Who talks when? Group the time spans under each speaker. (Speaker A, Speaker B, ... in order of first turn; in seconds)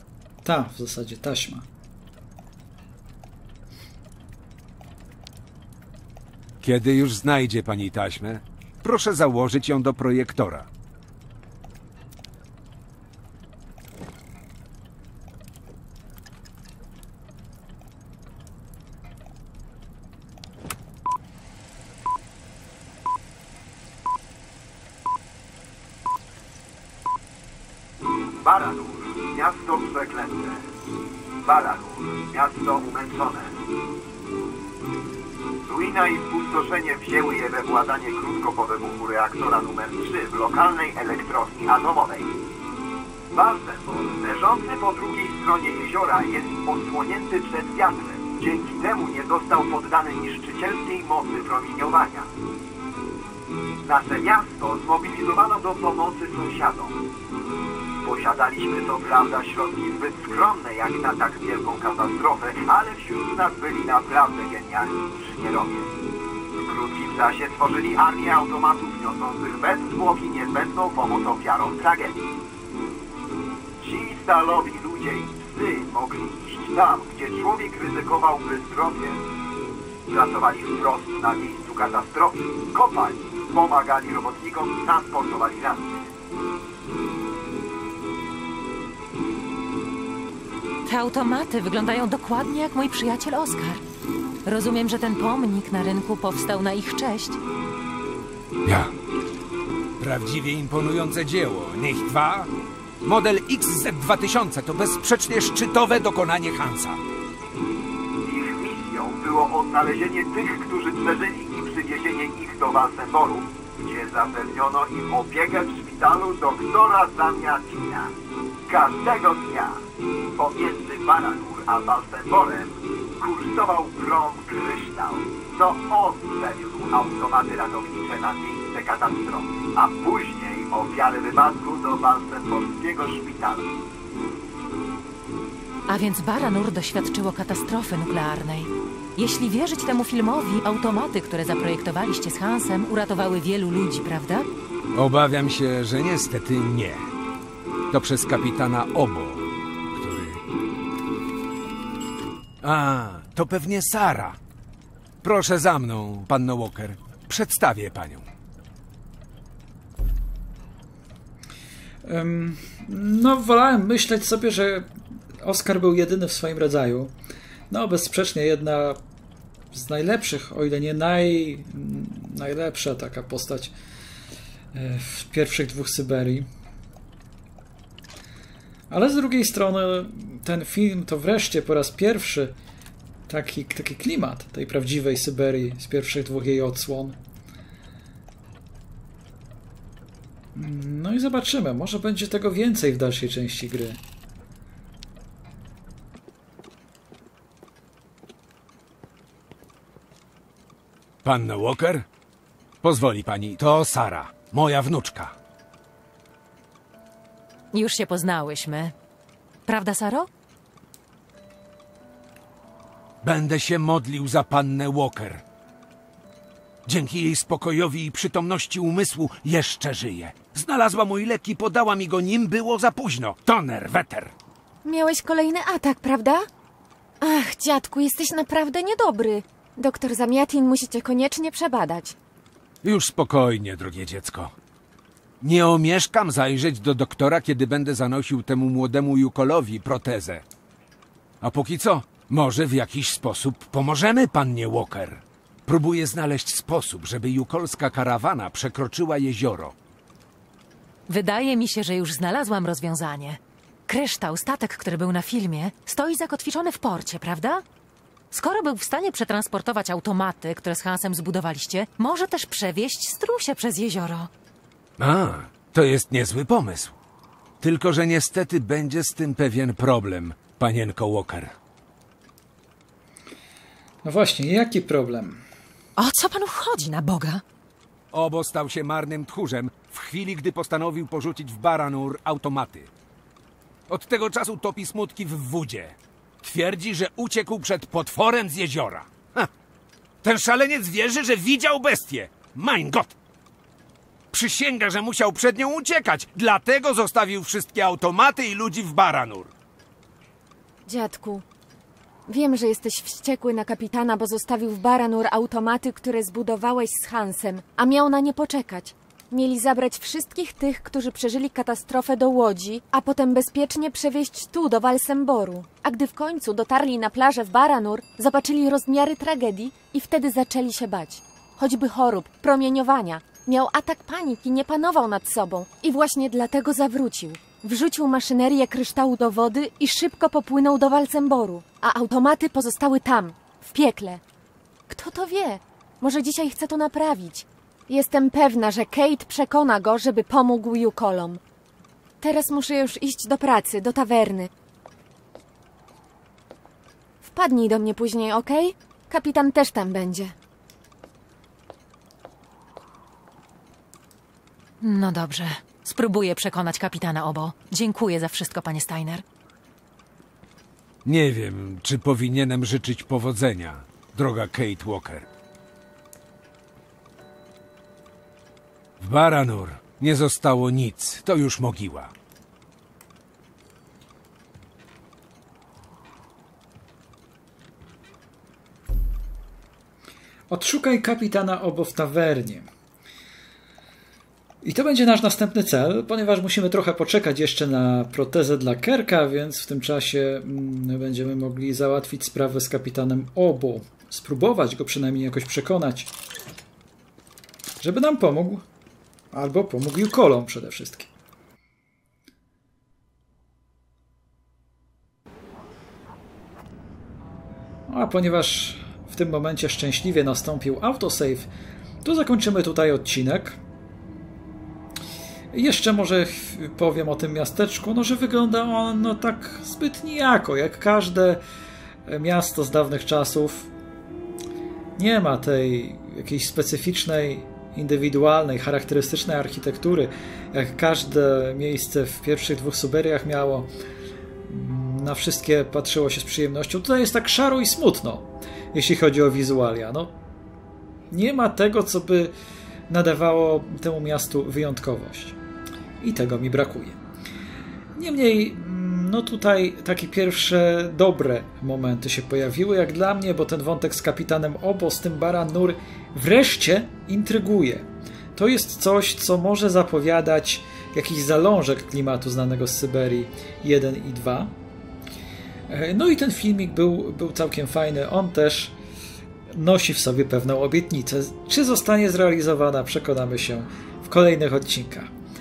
Speaker A: 0.4-1.7, 162.0-167.1, 167.7-169.0, 169.7-173.7, 174.7-176.5, 178.9-182.6, 183.3-187.2, 190.5-194.0, 274.0-275.4, 380.5-382.7, 384.6-396.1, 397.8-398.6, 399.3-401.1, 407.9-411.5, 412.0-413.6, 415.5-421.4, 422.1-423.7, 425.0-433.7, 434.4-440.1, 441.1-442.3, 442.9-445.4, 446.0-447.0, 447.9-464.5, 465.7-468.7, 469.5-475.1
Speaker B: 6.6-10.7, 98.6-98.9, 100.0-102.5, 103.0-107.0, 144.9-147.1, 147.9-150.4, 152.6-154.4, 155.2-158.2, 201.2-202.0, 202.8-205.3, 213.2-215.4, 216.9-224.3, 232.8-234.5, 235.4-240.4, 241.4-249.7, 265.0-266.9, 267.6-271.5, 278.1-282.9, 283.9-289.5, 290.2-293.1, 294.3-299.5, 361.0-365.3, 369.0-372.1
Speaker C: 28.4-30.6, 31.4-33.6, 35.7-42.3, 43.3-52.3, 53.8-56.9, 58.0-65.9, 66.6-72.3, 73.8-79.2, 80.1-86.1, 108.2-118.1, 118.7-119.8, 120.3-133.6
Speaker D: 90.8-93.8, 94.4-97.4, 135.9-144.5, 207.7-208.9, 209.7-210.3, 251.1-257.6, 258.3-264.3, 276.0-277.4, 354.8-359.2
Speaker E: 224.8-226.4, 227.2-232.1, 300.9-301.4, 302.3-334.2, 334.9-341.4, 342.2-344.5, 347.2-350.3